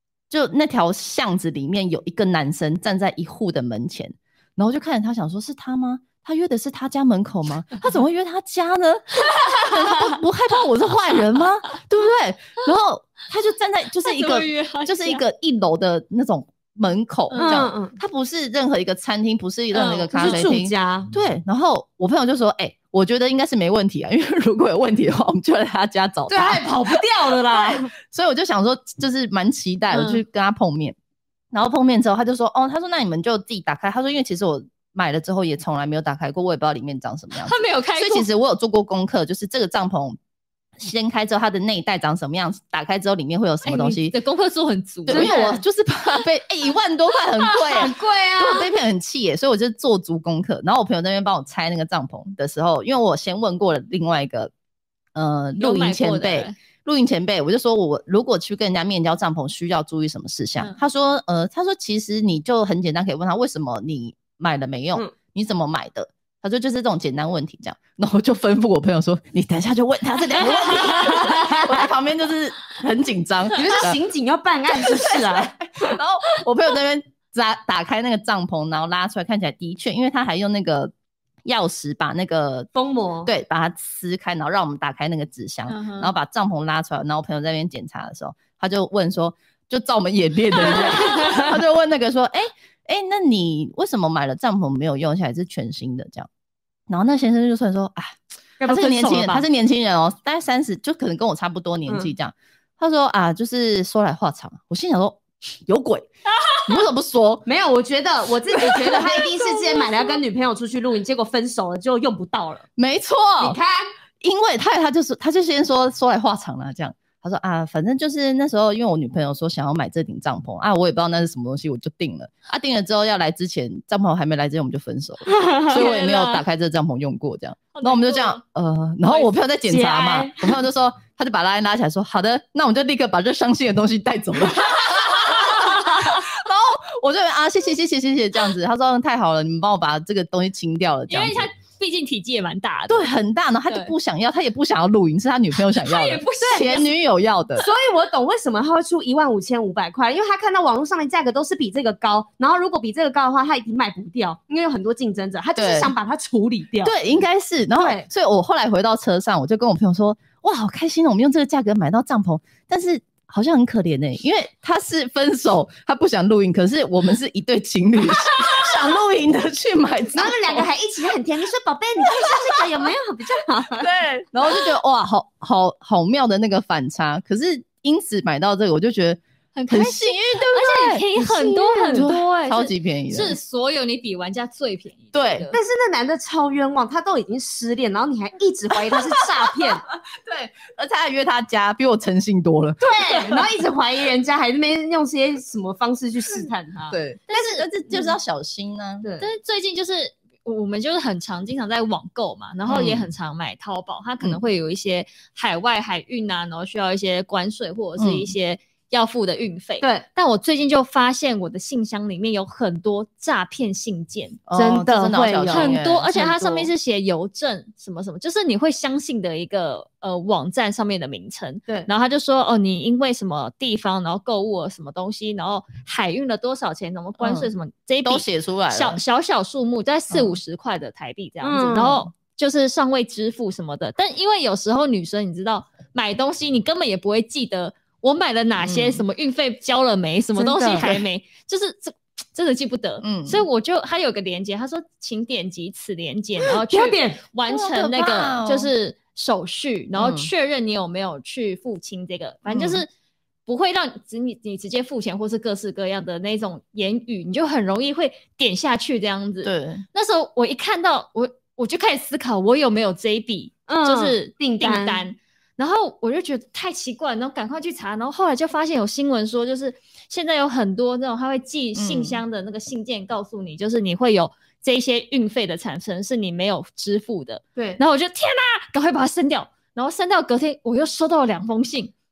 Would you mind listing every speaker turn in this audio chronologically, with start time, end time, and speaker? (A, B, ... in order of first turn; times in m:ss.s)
0:00.3-0:31.0 A
0:09.4-0:09.9 B
0:14.0-0:15.2 B
0:17.3-0:17.6 B
0:17.4-0:18.0 C
0:19.7-0:20.4 B
0:20.1-0:21.1 C
0:26.3-0:27.9 C
0:29.9-0:30.2 B
0:31.5-0:40.2 A
0:37.4-0:38.3 B
0:40.8-0:44.1 A
0:43.6-0:45.6 B
0:45.1-0:45.5 C
0:45.1-0:54.5 A
0:47.4-0:48.6 B
0:47.8-0:48.6 C
0:55.2-1:14.0 A
0:55.6-0:56.6 B
1:10.4-1:11.8 C
1:13.5-1:16.0 C
1:14.8-1:20.9 A
1:21.4-1:22.7 A
1:22.8-1:23.3 C
1:23.2-1:36.3 A
1:25.7-1:26.1 B
1:36.9-1:46.1 A
1:38.6-1:39.4 C
1:41.9-1:42.1 C
1:46.6-1:47.5 A
1:47.5-1:52.7 C
1:48.6-1:49.9 A
1:52.8-1:53.6 A
1:53.4-1:53.9 C
1:54.2-2:21.5 A
2:05.3-2:05.8 C
2:05.7-2:06.4 B
2:07.7-2:08.4 B
2:09.1-2:09.4 B
2:09.6-2:10.6 C
2:14.8-2:16.2 B
2:21.1-2:23.1 B
2:22.9-2:27.6 A
2:23.7-2:23.9 B
2:25.7-2:26.9 B
2:26.4-2:26.7 C
2:27.6-2:37.0 C
2:35.6-2:35.9 A
2:36.8-2:50.7 A
2:37.8-2:38.1 C
2:50.2-2:53.9 C
2:52.1-2:52.4 A
2:53.7-3:01.0 A
2:59.5-3:05.6 B
3:00.5-3:02.1 C
3:01.9-3:03.4 A
3:05.1-3:05.5 A
3:05.5-3:09.8 C
3:09.6-3:13.5 A
3:12.8-3:17.6 C
3:16.9-3:19.1 A
3:17.3-3:18.2 B
3:19.0-3:19.3 C
3:19.2-3:34.4 B
3:22.7-3:23.1 A
3:28.0-3:28.3 A
3:34.5-3:36.4 A
3:34.6-3:35.8 C
3:35.5-4:12.9 B
3:36.4-3:36.7 C
3:47.2-3:47.5 A
3:48.0-3:49.0 A
3:51.4-3:52.1 C
3:58.6-3:59.1 A
4:00.4-4:01.0 C
4:03.0-4:03.5 A
4:06.4-4:07.2 C
4:07.5-4:08.7 A
4:10.0-4:10.3 A
4:12.5-4:12.8 A
4:13.5-4:41.9 B
4:19.4-4:19.8 A
4:23.7-4:25.0 C
4:31.8-4:32.2 A
4:37.6-4:37.8 C